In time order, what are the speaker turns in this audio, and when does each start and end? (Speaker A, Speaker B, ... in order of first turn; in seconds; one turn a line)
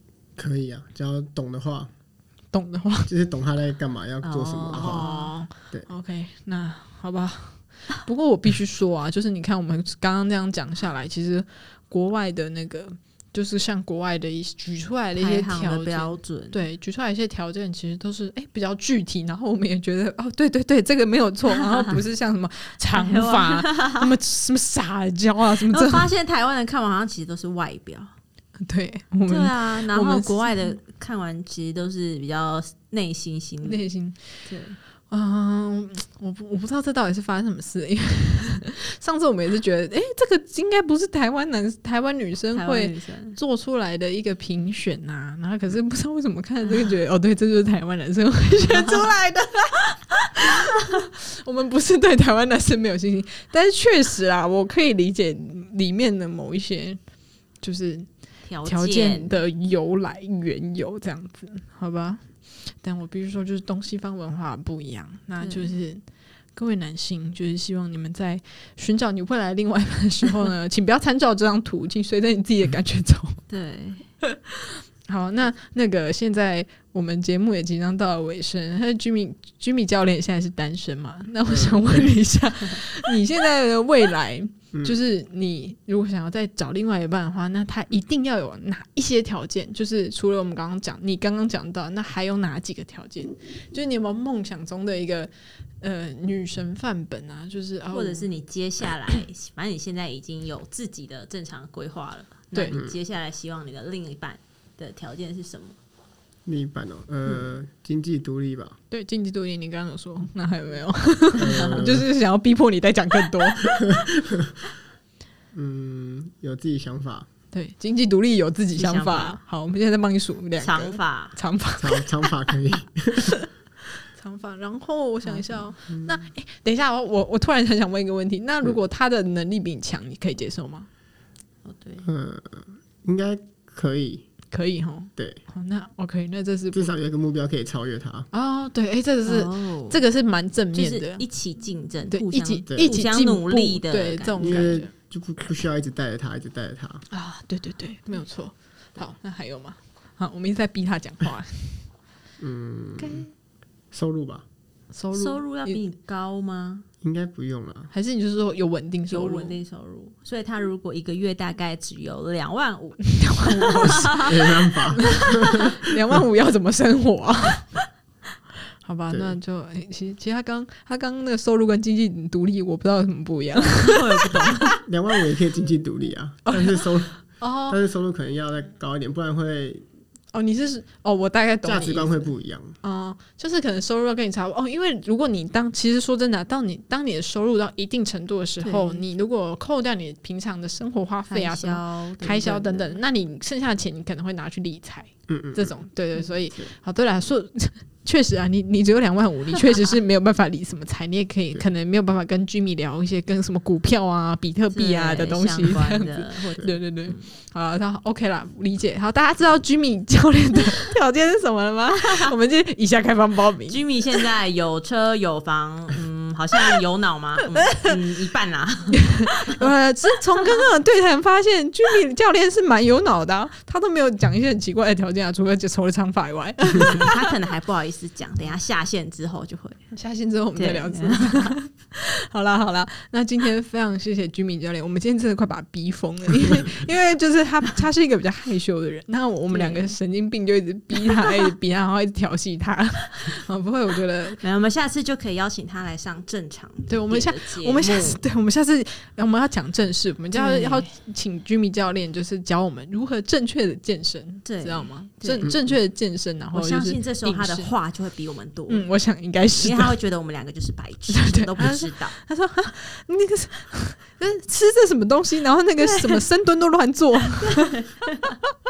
Speaker A: 0.3-1.9
Speaker B: 2.5-3.1
Speaker A: 3.1-5.1
Speaker C: 4.2-5.3
Speaker B: 4.7-26.1
Speaker C: 15.2-16.6
Speaker C: 21.6-21.9
Speaker C: 22.9-24.1
Speaker C: 25.7-28.1
Speaker B: 28.6-30.7
Speaker C: 29.2-33.8
Speaker B: 33.6-34.2
Speaker C: 34.5-34.8
Speaker B: 35.1-57.0
Speaker C: 42.5-43.4
Speaker C: 48.8-49.0
Speaker B: 57.6-58.1
Speaker C: 58.5-59.3
Speaker B: 58.6-66.0
Speaker C: 65.4-65.7
Speaker B: 66.5-73.4
Speaker C: 73.5-74.1
Speaker B: 74.2-98.3
Speaker A: 81.5-82.1
Speaker A: 84.7-85.0
Speaker C: 97.9-105.8
Speaker A: 102.7-103.0
Speaker A: 106.4-108.8
Speaker B: 108.9-114.0
Speaker A: 111.3-112.1
Speaker C: 111.4-111.8
Speaker A: 114.1-114.5
Speaker A: 115.5-117.3
Speaker B: 117.5-122.3
Speaker C: 118.8-119.4
Speaker C: 120.6-121.3
Speaker A: 121.8-123.3
Speaker B: 123.2-123.5
Speaker B: 124.1-130.9
Speaker C: 125.2-125.6
Speaker A: 125.9-126.2
Speaker C: 131.6-132.0
Speaker A: 132.0-134.2
Speaker B: 134.5-136.9
Speaker A: 135.2-135.4
Speaker A: 136.7-138.3
Speaker B: 138.3-141.2
Speaker C: 139.2-140.0
Speaker C: 140.7-144.8
Speaker B: 142.1-144.9
Speaker A: 142.7-142.9
Speaker A: 144.4-147.0
Speaker B: 147.1-151.9
Speaker A: 152.4-153.2
Speaker B: 153.0-153.3
Speaker A: 153.9-154.4
Speaker B: 154.9-155.8
Speaker C: 155.1-156.8
Speaker A: 157.0-157.9
Speaker B: 157.9-159.6
Speaker C: 159.1-165.8
Speaker B: 163.1-164.3
Speaker A: 164.0-165.7
Speaker B: 165.0-167.8
Speaker B: 168.8-174.8
Speaker A: 169.1-169.3
Speaker C: 173.8-174.7
Speaker A: 174.8-179.8
Speaker B: 176.4-177.8
Speaker B: 180.3-182.3
Speaker A: 181.6-182.8
Speaker B: 182.8-214.2
Speaker C: 188.6-189.0
Speaker C: 191.3-193.0
Speaker A: 195.3-195.8
Speaker C: 204.7-207.2
Speaker C: 211.9-212.3
Speaker C: 213.7-219.6
Speaker B: 217.6-217.9
Speaker B: 218.9-227.3
Speaker C: 226.7-229.8
Speaker B: 229.9-244.4
Speaker C: 230.6-231.5
Speaker C: 239.5-239.9
Speaker C: 244.4-248.2
Speaker B: 246.9-257.7
Speaker C: 250.3-250.9
Speaker C: 254.4-255.5
Speaker C: 256.5-258.9
Speaker B: 258.7-259.9
Speaker C: 259.6-262.2
Speaker B: 261.1-267.8
Speaker C: 265.9-266.2
Speaker C: 267.4-268.4